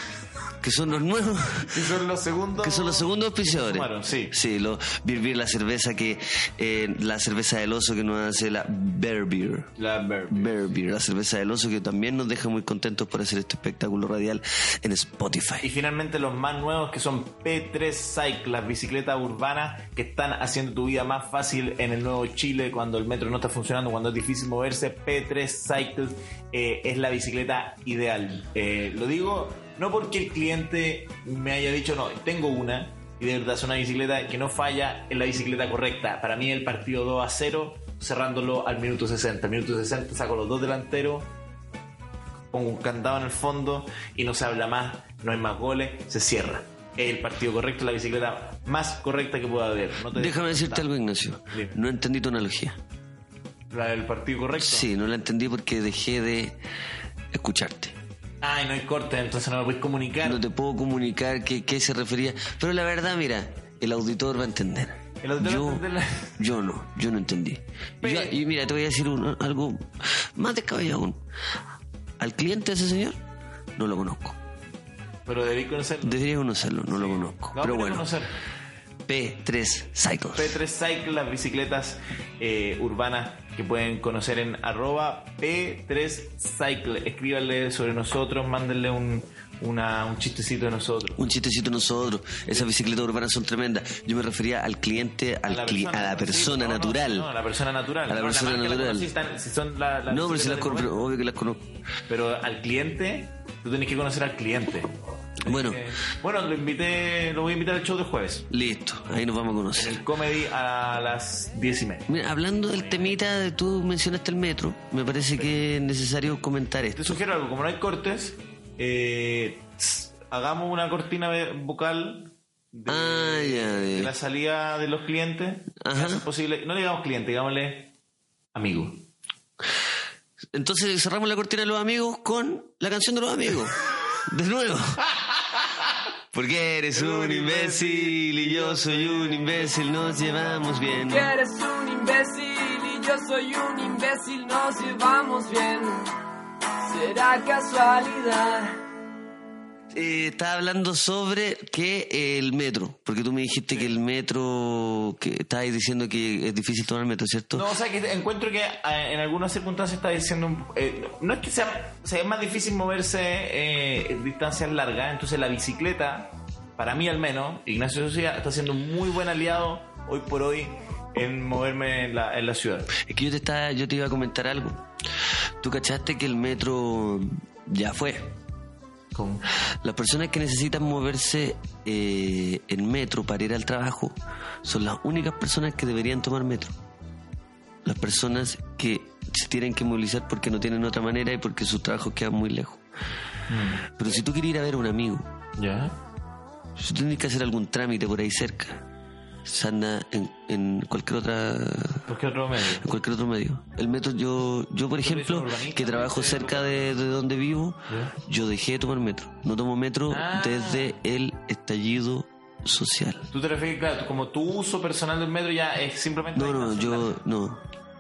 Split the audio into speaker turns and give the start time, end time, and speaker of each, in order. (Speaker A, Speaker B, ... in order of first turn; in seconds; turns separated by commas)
Speaker A: 0.6-1.9, Speaker B: 1.6-4.3, Speaker A: 2.6-9.7, Speaker B: 9.8-10.7, Speaker A: 10.3-15.7, Speaker B: 15.6-41.3, Speaker B: 42.5-50.9, Speaker A: 50.1-52.8, Speaker B: 51.5-51.8, Speaker B: 53.7-54.9, Speaker A: 54.6-56.6, Speaker A: 57.3-58.0, Speaker B: 58.4-60.4, Speaker A: 60.2-65.8, Speaker B: 65.2-66.5, Speaker A: 66.4-71.2, Speaker B: 68.0-68.4, Speaker A: 72.2-73.2, Speaker A: 73.8-74.4, Speaker B: 75.3-76.2, Speaker A: 76.0-78.1, Speaker B: 76.9-78.4, Speaker A: 79.1-80.6, Speaker B: 80.3-91.2, Speaker A: 91.2-97.3, Speaker B: 95.5-101.0, Speaker A: 98.1-99.1, Speaker A: 100.1-101.6, Speaker B: 102.1-108.5, Speaker A: 105.5-105.8, Speaker A: 108.5-110.0, Speaker B: 109.8-112.2, Speaker A: 112.1-117.2, Speaker B: 112.7-113.2, Speaker B: 115.2-115.5, Speaker B: 117.0-127.9, Speaker A: 122.9-124.1, Speaker A: 125.8-126.2, Speaker B: 128.5-129.0, Speaker A: 130.5-135.0, Speaker A: 136.3-141.3, Speaker B: 136.9-140.9, Speaker C: 141.1-146.1, Speaker C: 146.8-148.8, Speaker A: 149.9-157.7, Speaker B: 157.5-172.9, Speaker A: 173.0-174.8, Speaker A: 175.6-178.3, Speaker B: 179.1-179.4, Speaker A: 179.8-186.8, Speaker A: 187.8-192.8, Speaker B: 193.5-194.0, Speaker A: 193.9-195.3, Speaker B: 195.6-195.9, Speaker A: 196.8-198.8, Speaker A: 199.4-202.1, Speaker B: 202.1-202.9, Speaker A: 202.8-213.3, Speaker B: 205.0-207.0, Speaker B: 207.9-208.2, Speaker B: 210.1-210.9, Speaker B: 213.3-217.1, Speaker A: 216.3-217.6